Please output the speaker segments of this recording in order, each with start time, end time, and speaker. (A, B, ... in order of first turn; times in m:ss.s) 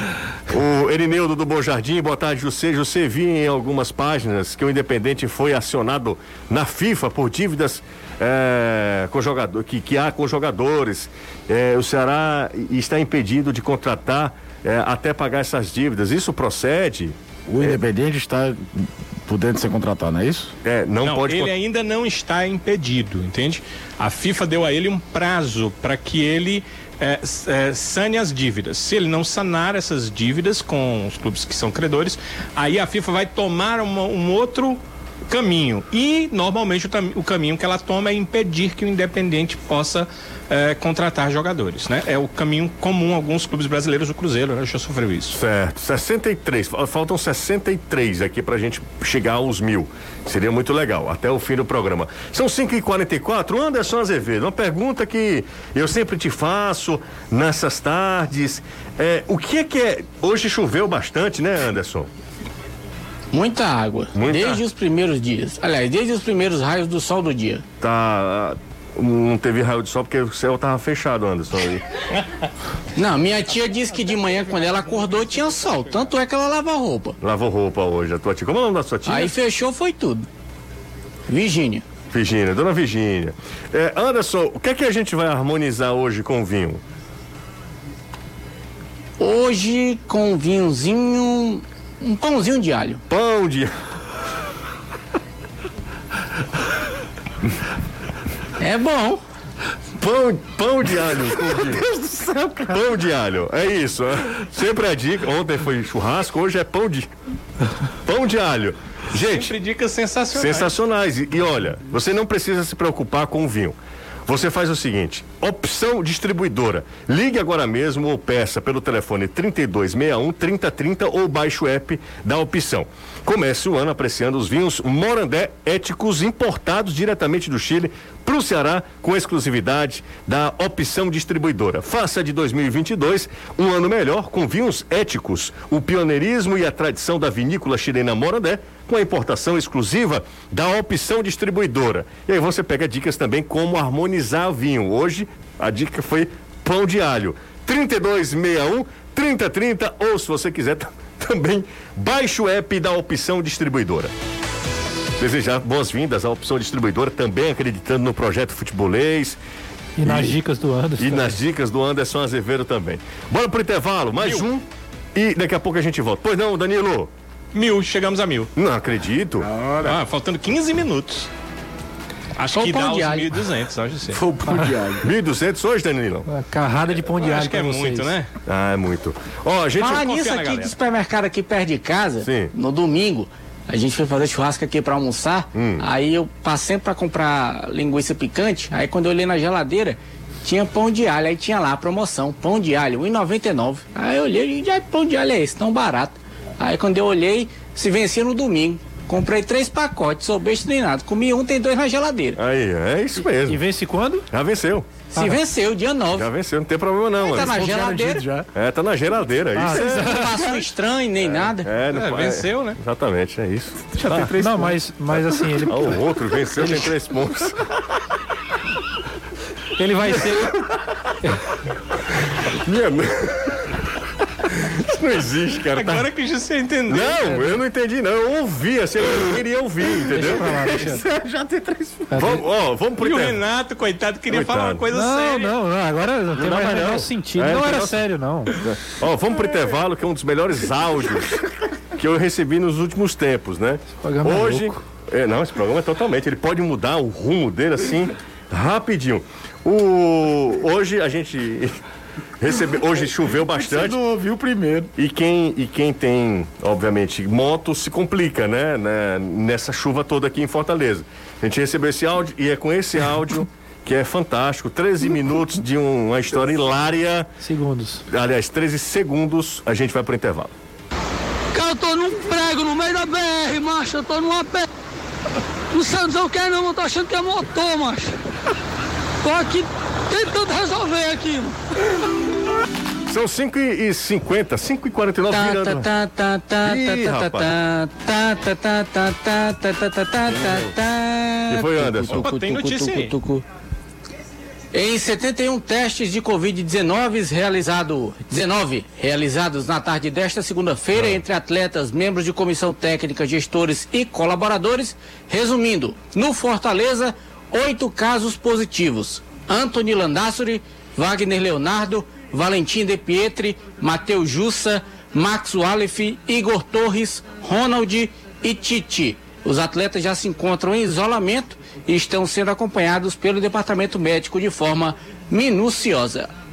0:00.5-0:17.7 A
0:17.5-0:20.5 B
0:20.6-0:21.5 A
0:21.0-0:45.4 C
0:45.3-1:02.1 A
1:03.3-1:07.6 D
1:04.1-1:04.6 A
1:07.8-1:11.8 A
1:13.0-1:17.2 D
1:17.2-1:19.3 A
1:19.0-1:20.3 D
1:21.3-1:21.8 D
1:22.1-1:26.8 A
1:29.2-1:33.0 D
1:33.1-1:33.7 A
1:38.6-1:39.2 D
1:40.0-1:47.1 A
1:48.0-1:49.5 A
1:49.1-1:50.8 C
1:50.3-1:53.7 A
1:54.3-2:34.1 A
2:35.2-2:39.4 A
2:40.0-2:41.3 E
2:40.0-2:40.4 A
2:41.0-2:44.6 A
2:45.1-2:47.1 A
2:47.5-2:48.5 C
2:48.6-2:49.5 A
2:49.4-2:50.0 B
2:49.8-2:51.3 C
2:52.4-2:54.2 C
2:52.5-2:53.4 D
2:54.1-2:55.0 B
2:54.5-2:54.8 E
2:55.0-2:56.3 A
2:56.3-2:58.2 E
2:57.0-2:58.3 C
2:58.4-3:00.0 A
2:59.8-3:22.4 D
2:59.8-3:00.8 C
3:02.2-3:02.5 A
3:05.5-3:05.8 A
3:22.4-3:23.6 A
3:23.4-3:24.2 E
3:24.3-3:24.9 A
3:25.1-3:26.3 D
3:26.1-3:27.7 A
3:27.2-3:28.2 D
3:27.3-3:28.5 B
3:28.5-3:30.2 A
3:29.6-3:30.5 E
3:29.7-3:31.7 D
3:31.2-3:34.3 A
3:31.9-3:32.8 C
3:34.0-3:34.8 B
3:34.3-3:36.0 E
3:35.1-3:37.6 A
3:36.6-3:36.9 E
3:39.8-3:40.6 E
3:40.2-3:40.8 A
3:42.2-3:43.7 A
3:44.4-3:46.0 A
3:45.7-3:47.6 C
3:46.9-3:53.4 A
3:50.1-3:51.0 E
3:51.0-3:51.9 B
3:52.1-3:52.4 E
3:53.0-3:55.5 C
3:54.3-3:54.9 A
3:54.9-3:58.6 E
3:56.3-3:58.0 A
3:58.6-4:11.8 A
4:04.0-4:04.8 E
4:12.4-4:14.0 A
4:13.3-4:14.9 B
4:15.0-4:27.3 A
4:27.4-4:28.0 E
4:28.1-4:30.5 A
4:31.5-4:34.7 F
4:35.7-4:38.1 F
4:39.2-4:41.5 F
4:43.1-4:45.9 A
4:45.3-4:53.4 D
4:46.6-4:47.5 A
4:50.3-4:50.7 A
4:51.5-4:52.3 A
4:52.1-4:53.2 C
4:54.7-5:26.3 D
5:00.9-5:01.2 A